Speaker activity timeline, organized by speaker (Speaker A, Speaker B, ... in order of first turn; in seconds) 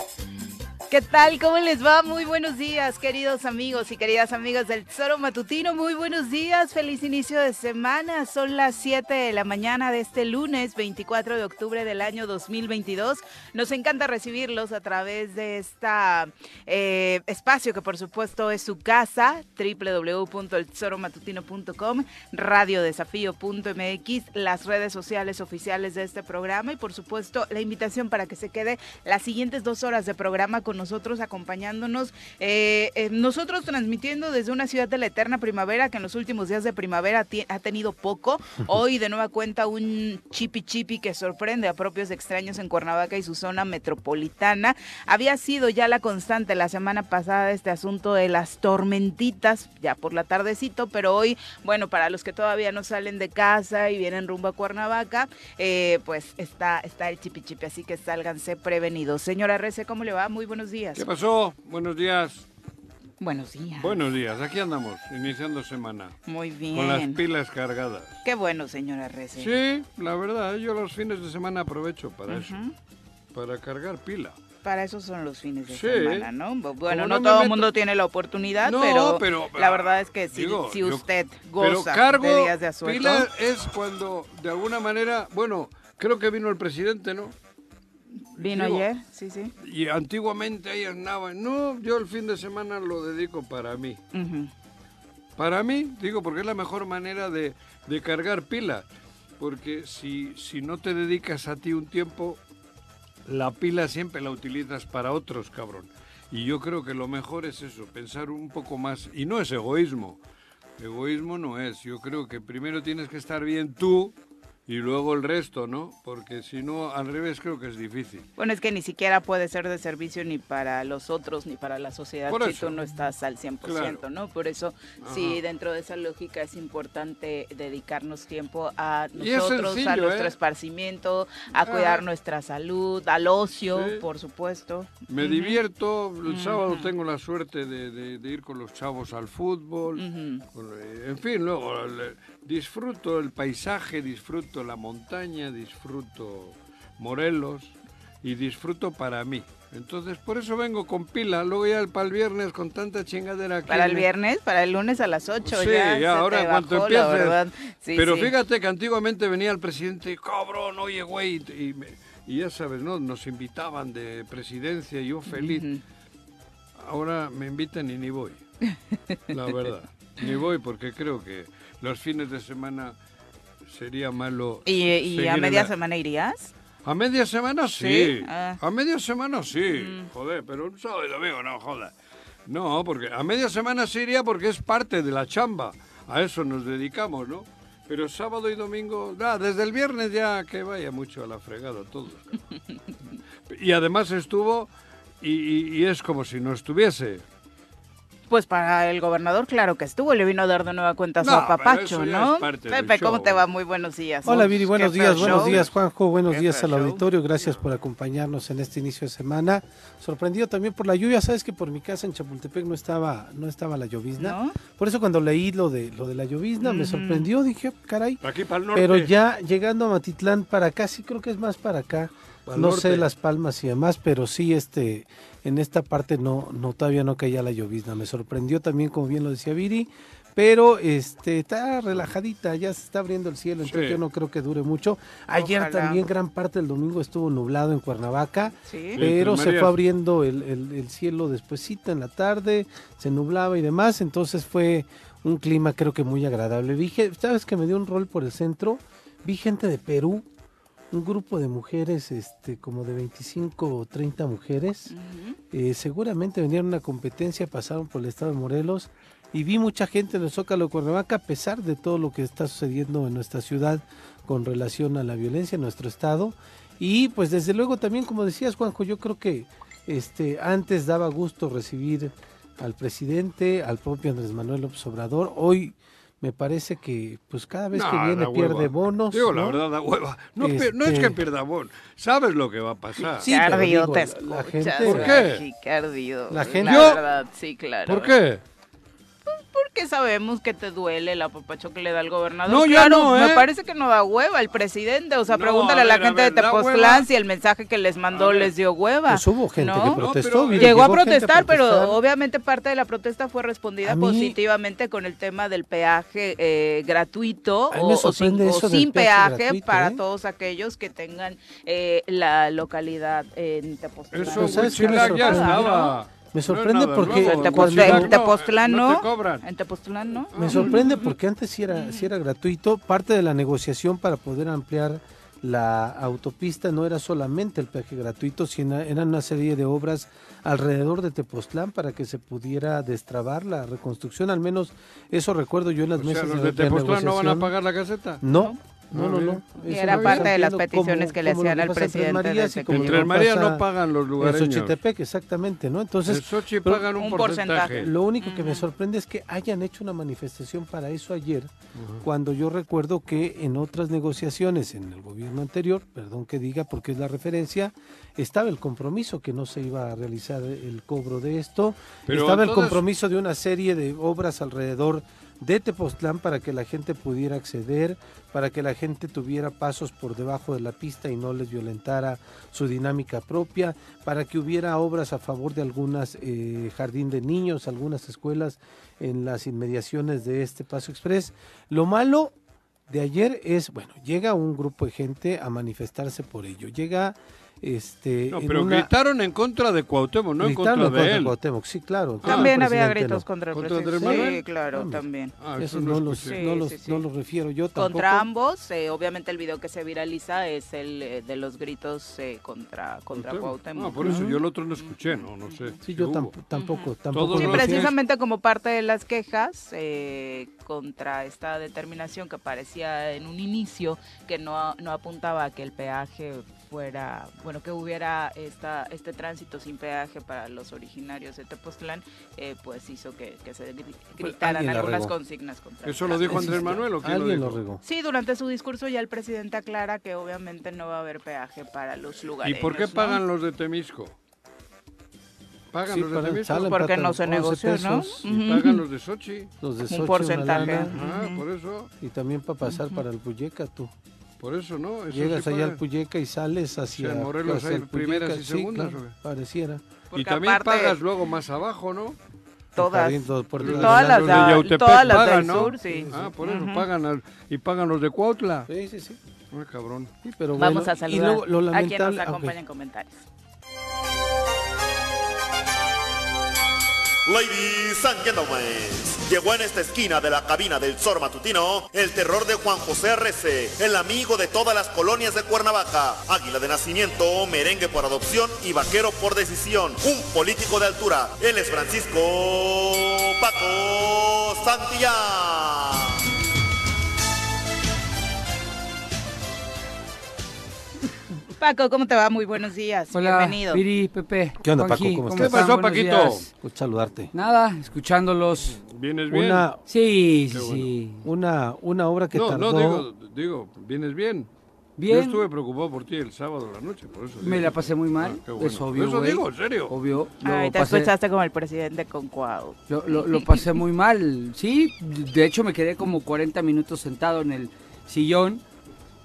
Speaker A: 0.9-61.0, 63.2-64.0, 66.3-67.2, 68.2-69.5, 72.3-72.7, 74.6-83.3, 88.4-89.5, 94.1-94.5, 118.4-135.6, 136.2-136.9, 139.9-140.4, 153.7-158.3, 165.3-165.8, 174.7-176.5, 177.8-178.6, 179.7-180.1, 198.3-205.7, 206.3-207.0, 214.2-214.6, 216.6-217.3, 235.4-236.0, 238.7-239.0, 254.9-255.4, 283.2-288.1, 289.3-315.9, 317.0-321.1, 321.7-322.1, 339.7-343.1, 346.9-348.6, 392.2-395.3, 396.2-397.0, 397.7-405.8, 406.5-426.8, 427.8-433.2, 436.5-438.8, 439.9-441.4, 442.6-443.0, 450.1-450.9, 452.8-456.9, 460.6-463.2, 491.6-493.8, 510.4-513.2
Speaker B: 60.9-62.4, 63.8-66.2, 66.7-68.2, 69.3-72.5, 73.3-74.3, 75.7-76.3, 76.8-77.7, 78.6-81.0, 81.6-87.3, 88.4-88.9, 89.6-94.0, 95.4-98.8, 99.4-102.4, 103.2-110.2, 110.8-114.1, 114.7-118.3, 122.3-122.8, 123.6-124.0, 125.0-125.4, 129.2-130.3, 131.6-132.0, 133.7-134.0, 135.1-154.1, 155.4-157.4, 157.9-165.6, 166.8-168.4, 169.3-172.9, 173.7-175.7, 176.8-181.9, 182.5-192.4, 193.5-194.7, 195.2-197.2, 201.2-203.4, 205.1-205.7, 218.2-219.1, 222.5-223.1, 233.6-234.0, 238.9-239.8, 277.7-283.3, 284.8-285.4, 286.4-287.0, 287.9-288.4, 292.4-293.5, 295.3-297.1, 298.1-298.5, 299.8-300.9, 314.1-319.4, 320.3-320.7, 336.0-338.2, 338.9-340.3, 342.7-344.8, 346.1-347.9, 351.8-352.0, 362.1-362.8, 388.3-391.3, 392.2-392.6, 393.5-394.4, 395.4-396.4, 403.1-406.3, 407.1-407.9, 425.8-427.6, 432.4-434.1, 435.7-436.6, 438.2-439.5, 440.7-441.9, 444.4-445.8, 446.9-449.1, 450.1-452.2, 453.6-458.7, 459.5-460.1, 495.4-496.4, 498.7-499.7, 500.5-500.9, 502.3-504.5, 505.1-509.9
Speaker C: 204.2-218.2, 218.7-250.2, 250.9-254.9, 255.5-279.6, 280.4-281.2, 283.1-285.2, 286.3-287.0, 299.1-302.0, 303.8-304.4, 307.7-310.0, 314.2-318.2, 320.3-337.5, 338.2-343.6, 344.2-346.9, 347.8-382.3, 382.9-388.9, 390.4-393.2, 394.0-398.3, 404.0-404.4, 405.8-407.9, 424.2-425.1, 426.3-427.8, 435.9-438.2, 439.6-440.9, 442.0-443.9, 445.1-449.8, 452.8-454.7, 455.3-456.3, 458.7-459.2, 460.2-462.6, 494.6-495.7, 496.6-497.3, 499.3-499.8, 501.2-503.1
Speaker D: 467.2-486.1
Speaker E: 493.1-496.5, 497.3-498.8, 499.9-501.2, 505.0-505.4, 507.4-511.1, 512.9-518.6